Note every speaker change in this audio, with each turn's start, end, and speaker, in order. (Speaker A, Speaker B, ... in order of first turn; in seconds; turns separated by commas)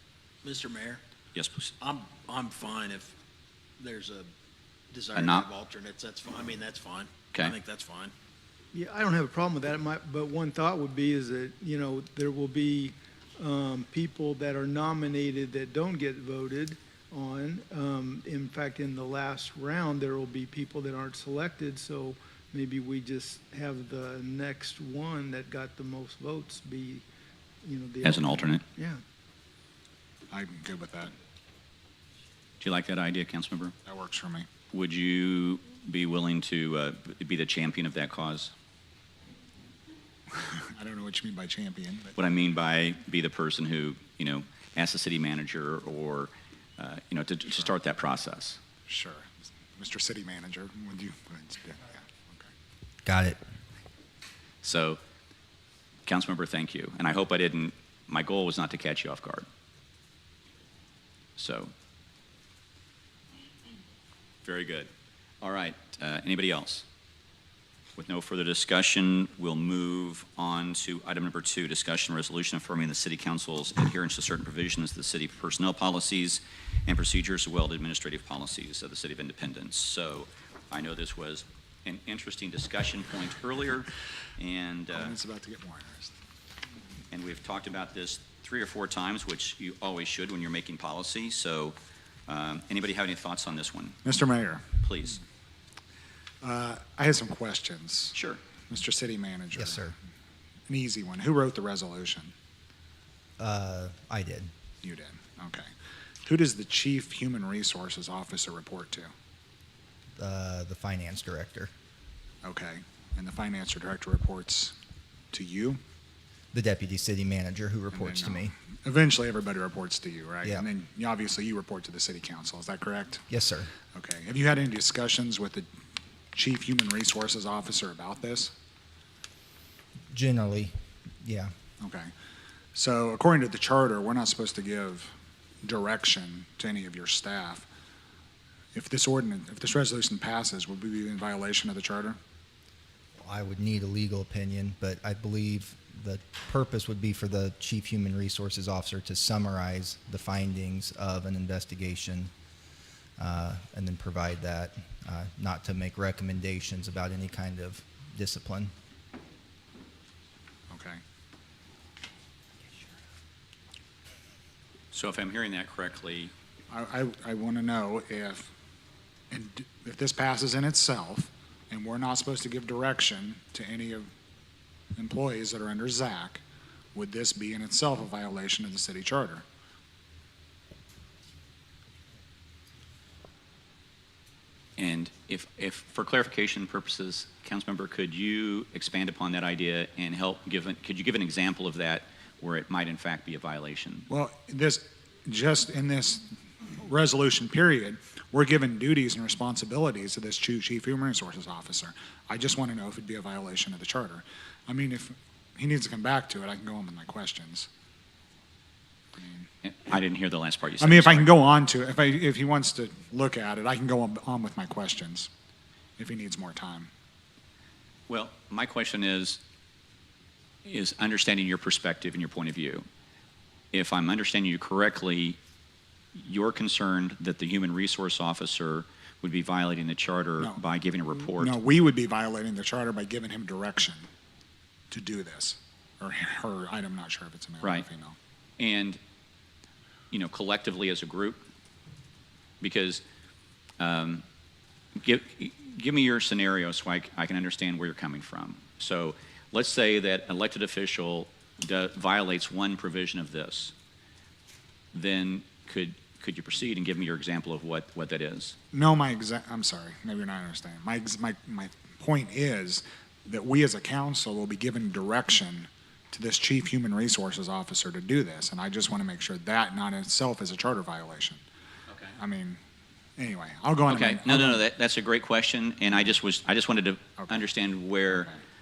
Speaker A: 0.4-1.0, Speaker B: 1.3-1.7, Speaker A: 1.8-3.1, Speaker A: 3.8-4.3, Speaker A: 4.9-8.1, Speaker B: 5.1-5.5, Speaker C: 8.7-27.0, Speaker C: 27.6-29.0, Speaker B: 28.0-28.6, Speaker D: 30.3-31.1, Speaker B: 32.6-33.7, Speaker D: 33.9-34.5, Speaker B: 34.7-38.5, Speaker D: 40.3-42.1, Speaker B: 42.1-48.6, Speaker D: 48.9-52.5, Speaker E: 53.0-53.4, Speaker B: 54.6-55.0, Speaker B: 56.1-59.5, Speaker B: 61.4-61.7, Speaker B: 64.4-64.9, Speaker B: 65.4-66.9, Speaker B: 68.0-85.2, Speaker D: 84.9-86.1, Speaker B: 87.1-91.8, Speaker B: 92.3-94.0, Speaker D: 94.0-94.7, Speaker B: 94.8-95.2, Speaker D: 96.4-98.2, Speaker B: 98.1-98.4, Speaker D: 98.7-99.8, Speaker E: 99.5-100.0, Speaker D: 100.7-102.3, Speaker E: 103.4-104.5, Speaker D: 104.8-105.7, Speaker D: 106.2-109.1, Speaker E: 110.2-111.7, Speaker D: 112.4-114.7, Speaker D: 115.3-115.8, Speaker E: 116.5-118.5, Speaker D: 117.9-123.2, Speaker E: 120.4-120.7, Speaker E: 123.3-123.7, Speaker D: 123.9-125.7, Speaker D: 126.3-128.5, Speaker E: 130.1-131.5, Speaker D: 131.8-132.1, Speaker D: 132.8-137.7, Speaker D: 138.7-142.2, Speaker E: 143.2-152.3, Speaker E: 153.2-158.7, Speaker D: 160.7-161.0, Speaker B: 164.9-166.3, Speaker D: 166.7-168.5, Speaker D: 169.3-174.1, Speaker D: 175.0-176.4, Speaker D: 176.9-179.4, Speaker B: 184.8-194.1, Speaker D: 194.1-196.3, Speaker D: 196.8-207.7, Speaker B: 209.6-211.4, Speaker D: 210.8-215.3, Speaker D: 216.0-216.9, Speaker B: 218.1-219.4, Speaker B: 220.6-222.9, Speaker B: 223.7-225.4, Speaker B: 226.1-231.6, Speaker D: 231.4-234.1, Speaker D: 234.9-238.2, Speaker B: 237.6-237.9, Speaker B: 238.6-239.0, Speaker B: 240.1-241.4, Speaker B: 242.6-243.0, Speaker B: 243.8-244.2, Speaker B: 245.0-253.7, Speaker B: 254.9-258.6, Speaker D: 258.7-271.4, Speaker B: 271.9-272.1, Speaker D: 272.2-272.6, Speaker D: 273.2-274.6, Speaker B: 273.9-278.3, Speaker D: 277.2-277.4